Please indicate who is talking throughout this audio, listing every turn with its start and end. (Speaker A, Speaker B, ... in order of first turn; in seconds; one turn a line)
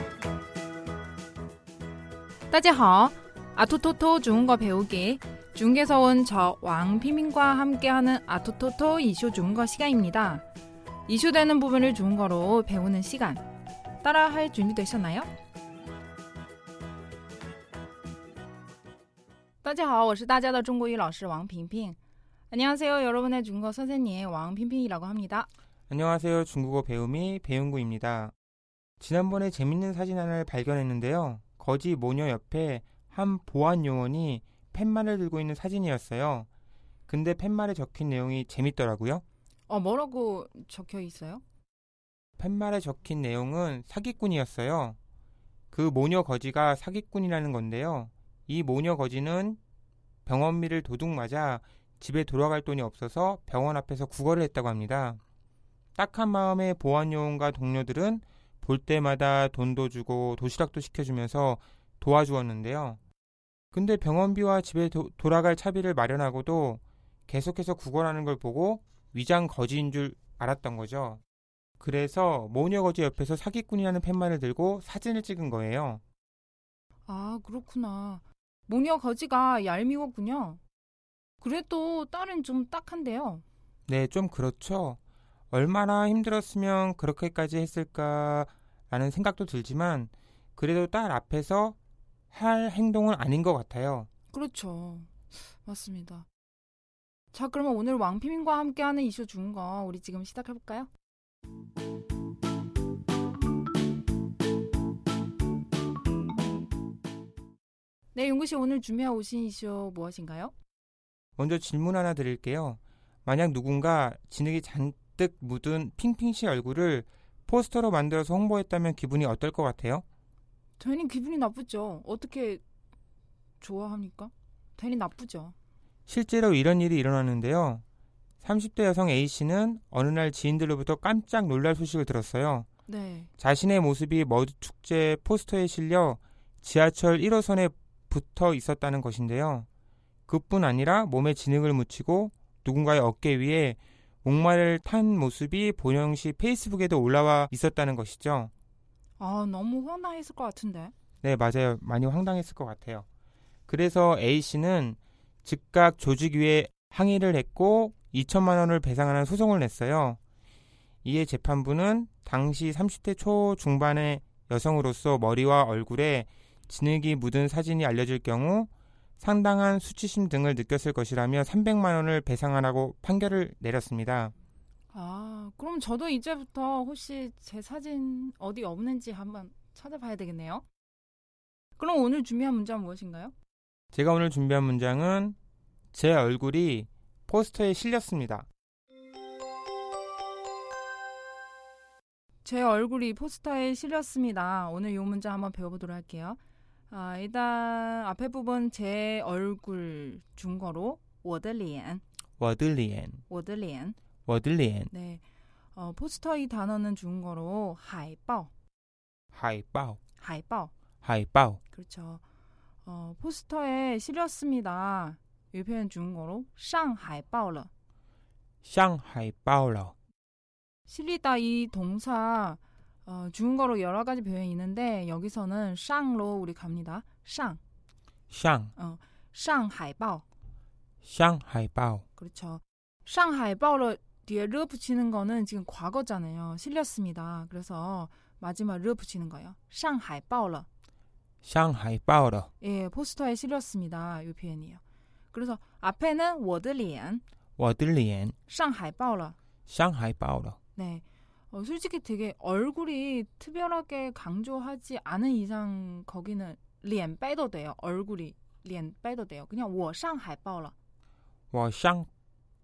Speaker A: 2.5-10.4
Speaker A: 11.1-13.4
Speaker A: 14.0-15.3
Speaker A: 19.6-22.0
Speaker A: 22.5-25.5
Speaker B: 25.9-28.3
Speaker B: 29.0-36.5
Speaker B: 37.1-39.2
Speaker A: 39.7-41.4
Speaker B: 42.4-45.0
Speaker B: 45.7-49.6
Speaker B: 50.2-55.2
Speaker B: 56.0-63.0
Speaker B: 63.7-71.2
Speaker B: 71.8-76.0
Speaker A: 77.0-80.6
Speaker A: 81.4-83.4
Speaker B: 83.9-85.0
Speaker B: 85.5-91.8
Speaker B: 92.3-94.1
Speaker A: 94.3-96.3
Speaker A: 97.3-100.9
Speaker A: 108.1-110.5
Speaker B: 111.4-120.0
Speaker A: 120.8-122.6
Speaker A: 123.6-125.5
Speaker B: 126.1-127.8
Speaker B: 128.4-132.7
Speaker A: 132.9-133.3
Speaker B: 133.4-139.7
Speaker B: 140.3-148.5
Speaker A: 149.2-150.9
Speaker B: 151.2-153.1
Speaker B: 153.7-160.2
Speaker B: 161.0-174.3
Speaker A: 174.9-180.6
Speaker A: 181.8-183.3
Speaker B: 183.9-185.3
Speaker B: 185.9-188.5
Speaker A: 192.4-196.4
Speaker A: 196.9-202.0
Speaker B: 202.4-203.2
Speaker A: 203.3-203.9
Speaker B: 204.3-204.9
Speaker A: 204.9-205.2
Speaker A: 205.7-208.5
Speaker B: 209.3-210.0
Speaker A: 210.2-210.7
Speaker B: 211.0-211.6
Speaker A: 211.7-212.2
Speaker A: 212.8-217.7
Speaker B: 218.6-219.9
Speaker A: 220.9-227.6
Speaker B: 228.3-228.7
Speaker A: 228.8-230.2
Speaker B: 231.0-232.0
Speaker A: 232.2-240.7
Speaker B: 241.4-242.5
Speaker A: 242.6-244.8
Speaker A: 245.3-247.2
Speaker B: 247.6-248.3
Speaker A: 248.5-249.3
Speaker B: 249.7-250.6
Speaker A: 250.8-260.7
Speaker B: 261.5-262.1